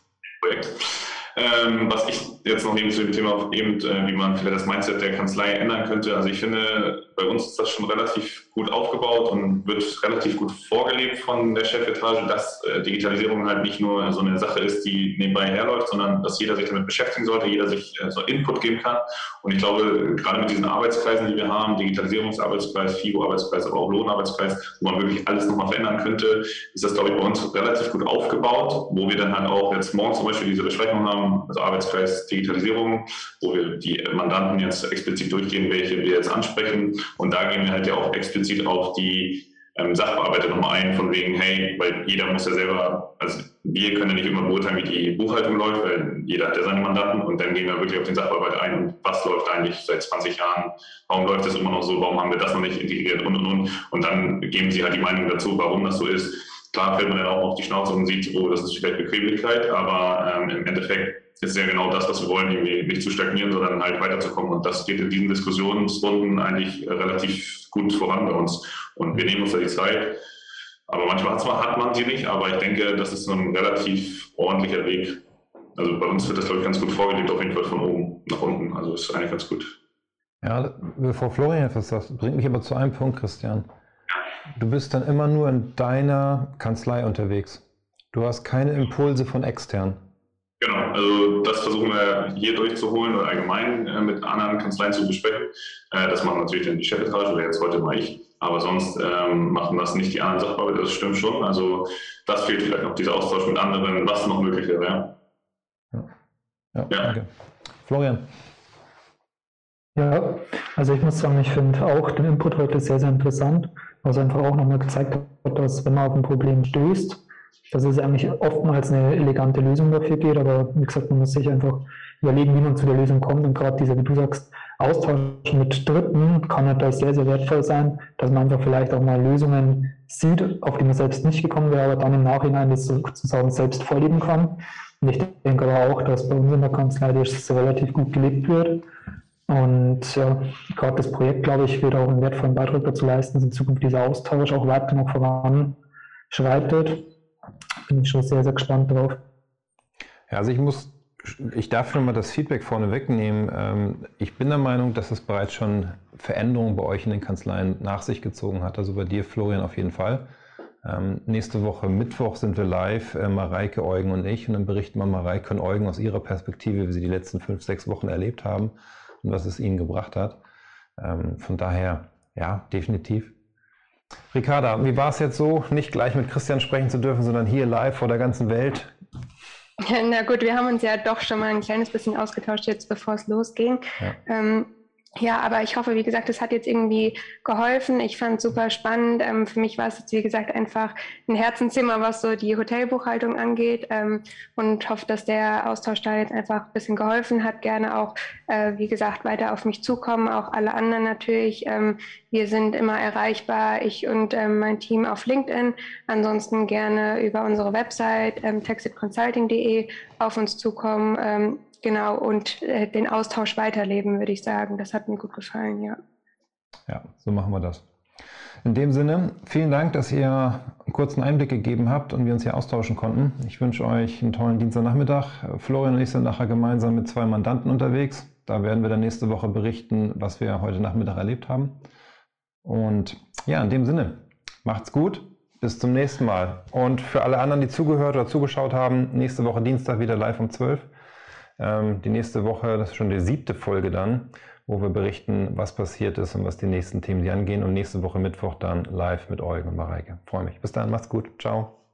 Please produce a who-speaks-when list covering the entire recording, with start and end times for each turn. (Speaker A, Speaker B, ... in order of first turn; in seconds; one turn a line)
Speaker A: 0.4-70.2
Speaker A: 70.9-75.2
Speaker A: 75.7-79.8
Speaker B: 80.4-83.7
Speaker B: 84.5-90.0
Speaker A: 90.6-105.1
Speaker B: 106.7-107.3
Speaker A: 106.9-107.1
Speaker B: 107.8-108.3
Speaker C: 110.0-138.8
Speaker C: 139.5-145.8
Speaker C: 146.3-147.1
Speaker C: 147.9-149.2
Speaker B: 150.3-160.3
Speaker B: 160.8-170.4
Speaker B: 171.0-173.3
Speaker B: 174.3-178.9
Speaker D: 179.8-184.7
Speaker D: 185.2-216.0
Speaker B: 216.9-217.8
Speaker B: 218.6-231.8
Speaker B: 232.6-240.9
Speaker B: 241.6-251.7